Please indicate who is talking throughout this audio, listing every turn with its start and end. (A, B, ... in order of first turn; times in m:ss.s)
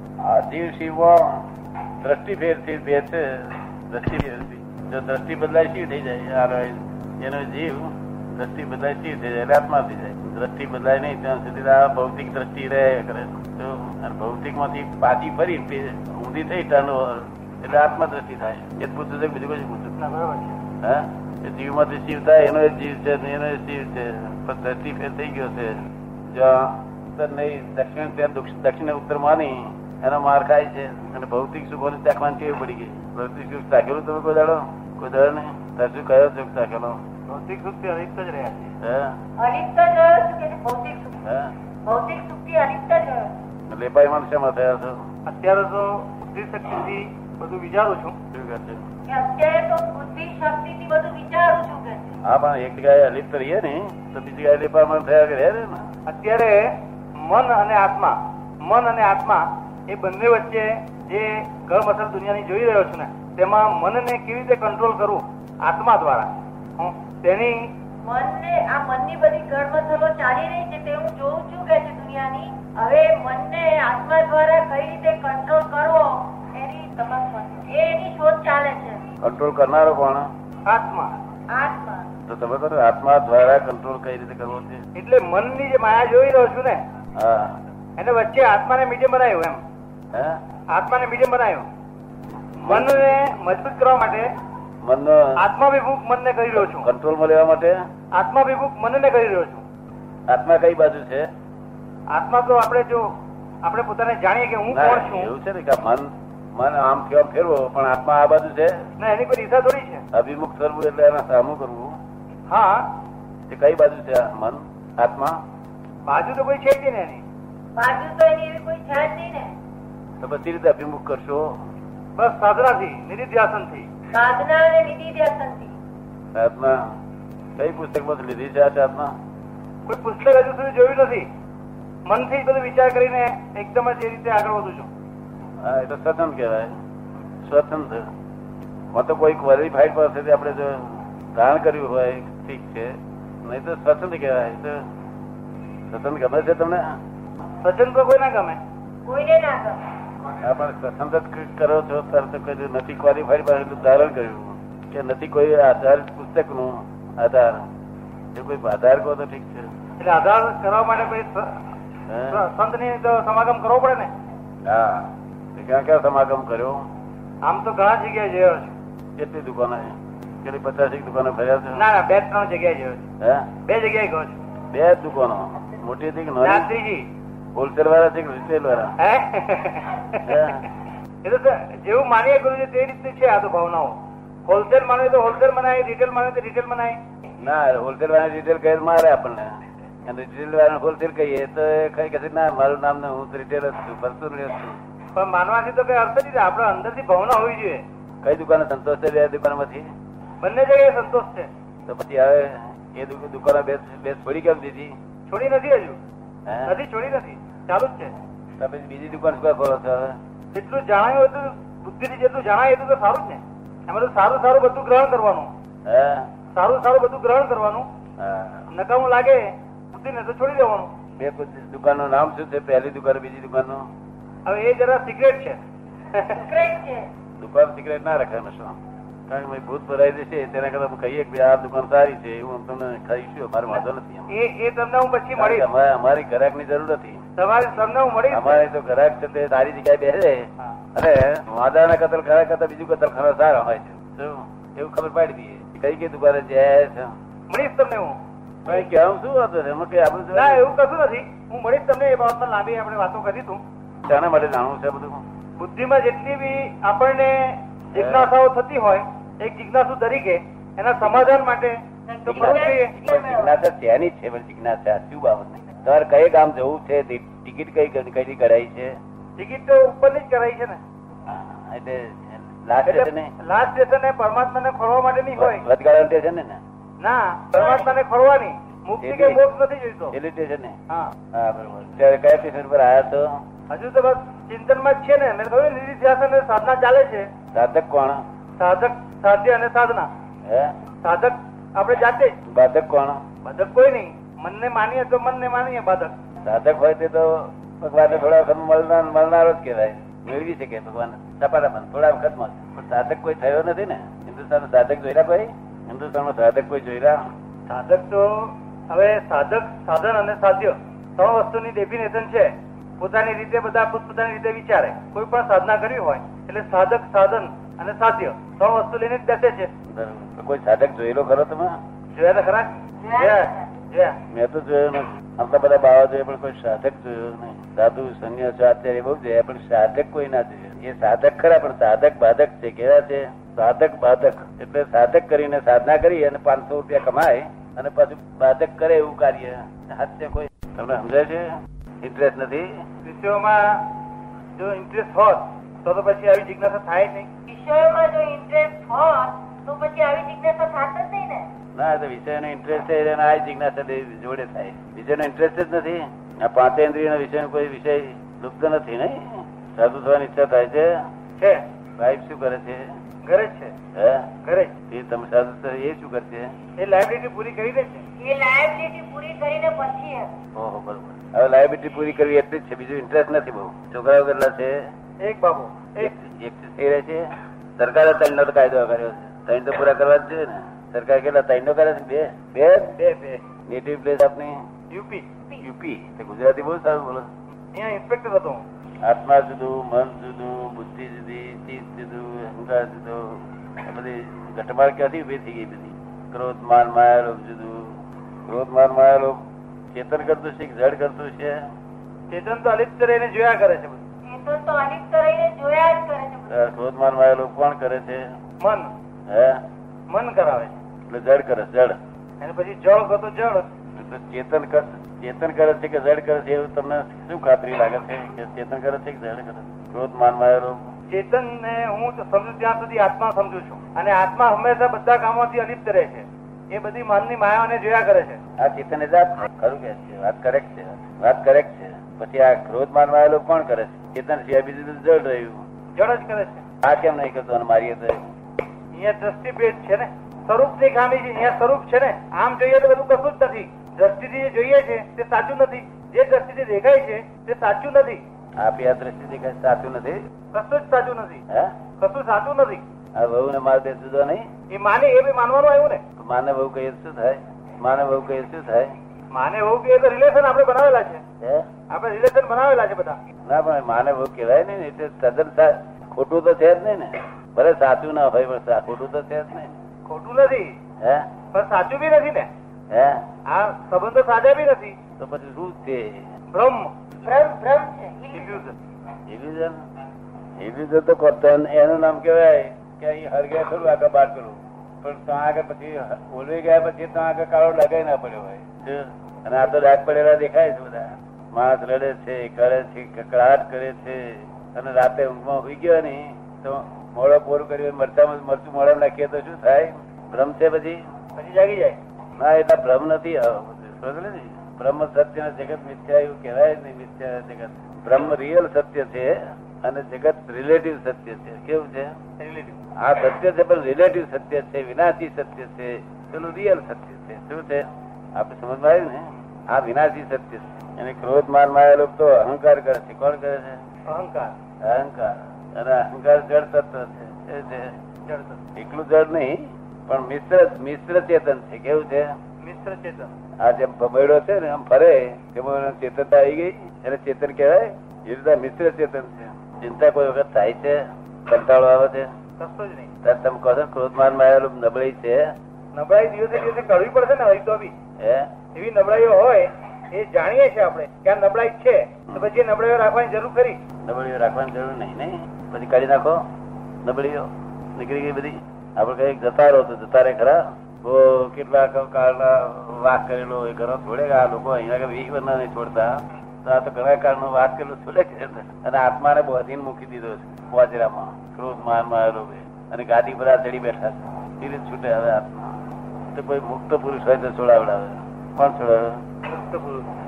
0:00.2-0:01.5 A
0:02.0-0:19.9 A
0:20.0-0:20.6 B
0:20.8-0:37.0 A
0:37.3-0:38.8 B
0:38.8-0:39.2 A
0:39.4-0:41.2 C
0:41.2-0:41.5 A
0:41.8-0:43.3 C
0:43.7-0:45.0 A
0:45.3-0:48.2 B
0:48.3-0:48.8 A
0:49.1-0:52.1 C
0:52.2-0:55.9 A
0:56.1-1:07.7 B
1:08.0-1:19.0 C
1:19.2-1:20.3 A
1:20.7-1:21.1 B
1:21.5-1:22.1 C
1:22.3-1:24.8 A
1:25.0-1:26.8 B
1:27.2-1:27.6 A
1:28.0-1:29.6 B
1:30.1-1:30.4 A
1:30.7-1:31.7 B
1:32.6-1:34.3 B
1:32.6-1:33.1 A
1:34.8-1:35.3 A
1:35.4-1:36.9 B
1:36.5-1:37.8 A
1:38.1-1:39.6 B
1:40.3-1:41.3 A
1:42.1-1:43.1 B
1:43.6-1:45.3 B
1:44.7-1:48.8 A
1:49.0-1:50.0 B
1:50.1-1:52.0 A
1:52.5-1:52.9 B
1:53.5-1:55.4 A
1:56.1-1:57.2 B
1:57.8-1:59.5 C
2:00.2-2:01.5 A
2:02.2-2:03.9 B
2:04.1-2:05.7 C
2:06.3-2:06.9 A
2:07.6-2:09.2 A
2:09.9-2:11.3 B
2:12.1-2:14.9 B
2:15.6-2:16.7 A
2:17.4-2:18.1 A
2:18.9-2:24.8 A
2:25.9-2:27.0 A
2:27.6-2:28.6 B
2:29.0-2:29.8 C
2:30.4-2:37.6 A
2:38.3-2:39.7 A
2:40.0-2:41.6 B
2:42.1-2:42.4 A
2:42.3-2:44.1 B
2:44.6-2:46.8 A
2:47.4-2:48.7 B
2:49.2-2:51.8 A
2:51.8-2:53.1 B
2:53.2-2:53.5 A
2:53.6-2:54.4 B
2:54.7-2:56.7 A
2:56.4-2:57.1 B
2:57.6-2:59.0 A
2:59.0-3:00.5 B
3:00.2-3:00.6 A
3:01.2-3:07.0 B
3:07.4-3:14.8 A
3:15.2-3:17.8 B
3:18.2-3:19.9 A
3:20.4-3:21.5 B
3:21.9-3:25.0 A
3:25.3-3:26.0 B
3:26.5-3:26.8 A
3:26.6-3:28.1 B
3:28.6-3:30.2 A
3:30.5-3:35.5 B
3:35.9-3:36.3 A
3:36.5-3:37.9 B
3:38.2-3:38.7 A
3:38.7-3:40.9 B
3:41.2-3:43.9 A
3:44.5-3:45.6 B
3:46.1-3:46.6 B
3:46.3-3:47.1 C
3:47.4-3:48.8 A
3:49.3-3:54.3 A
3:54.3-3:55.7 B
3:55.4-3:57.2 A
3:57.4-3:58.6 B
3:58.3-4:07.1 A
4:07.5-4:08.2 B
4:08.6-4:10.6 A
4:10.3-4:13.6 B
4:14.0-4:15.2 A
4:15.6-4:23.0 B
4:17.9-4:18.3 A
4:21.0-4:21.3 A
4:22.1-4:23.6 C
4:22.3-4:29.0 A
4:29.4-4:30.8 B
4:31.3-4:33.3 A
4:32.8-4:35.6 B
4:35.4-4:36.6 A
4:37.0-4:40.2 B
4:39.0-4:39.4 A
4:40.1-4:40.8 A
4:41.3-4:43.3 A
4:43.7-4:47.3 B
4:47.5-4:48.2 A
4:48.6-4:50.1 B
4:50.5-4:50.8 A
4:51.0-4:52.4 B
4:52.5-4:53.2 A
4:53.4-4:56.1 B
4:56.4-5:07.2 A
5:07.7-5:19.7 B
5:19.9-5:21.8 A
5:22.2-5:24.2 B
5:23.0-5:23.6 C
5:24.3-5:42.8 A
5:43.0-5:43.9 B
5:44.6-5:47.3 B
5:47.5-5:51.5 C
5:51.8-6:01.0 A
6:01.4-6:01.6 B
6:02.0-6:02.9 A
6:03.2-6:03.8 B
6:04.0-6:04.3 A
6:04.4-6:04.7 B
6:04.9-6:06.5 A
6:06.8-6:08.0 B
6:08.2-6:10.3 C
6:10.6-6:14.8 A
6:15.2-6:16.1 B
6:16.0-6:23.0 A
6:23.0-6:23.4 B
6:23.7-6:24.6 A
6:24.9-6:25.4 B
6:25.6-6:27.3 A
6:27.7-6:28.6 B
6:29.0-6:39.4 A
6:39.9-6:41.7 A
6:42.3-6:44.0 B
6:44.3-6:46.6 C
6:46.5-6:48.3 A
6:48.6-6:48.9 B
6:49.3-6:49.6 A
6:50.1-6:50.8 B
6:51.1-6:52.0 A
6:52.4-6:53.7 B
6:54.0-7:00.8 A
7:01.1-7:08.4 B
7:08.6-7:15.6 A
7:16.0-7:16.6 B
7:16.8-7:18.2 A
7:18.9-7:28.2 B
7:28.6-7:30.2 A
7:30.5-7:31.4 B
7:31.5-7:31.8 A
7:32.0-7:32.8 B
7:33.2-7:34.5 A
7:34.7-7:36.0 B
7:36.2-7:38.9 A
7:39.3-7:41.2 B
7:41.4-7:41.7 A
7:41.9-7:43.2 B
7:43.5-7:49.7 A
7:50.1-7:50.7 B
7:51.0-7:51.3 A
7:51.5-7:52.5 B
7:52.9-7:53.3 A
7:53.5-7:55.0 B
7:55.2-7:56.3 A
7:56.5-7:56.9 B
7:57.2-7:58.7 C
7:58.3-7:58.7 B
7:59.3-7:59.8 A
8:00.6-8:21.0 A
8:21.4-8:22.0 B
8:22.4-8:32.1 A
8:32.4-8:32.8 B
8:33.0-8:43.8 A
8:44.1-8:44.6 B
8:44.8-8:48.0 A
8:48.3-8:48.6 B
8:48.8-8:52.3 A
8:52.6-8:53.4 B
8:53.6-9:02.3 A
9:02.6-9:03.1 B
9:03.2-9:05.5 A
9:05.9-9:07.9 B
9:08.2-9:08.5 A
9:08.8-9:13.8 B
9:12.3-9:12.6 A
9:14.0-9:16.4 A
9:17.0-9:35.8 A
9:36.3-9:39.2 A
9:39.5-9:40.1 B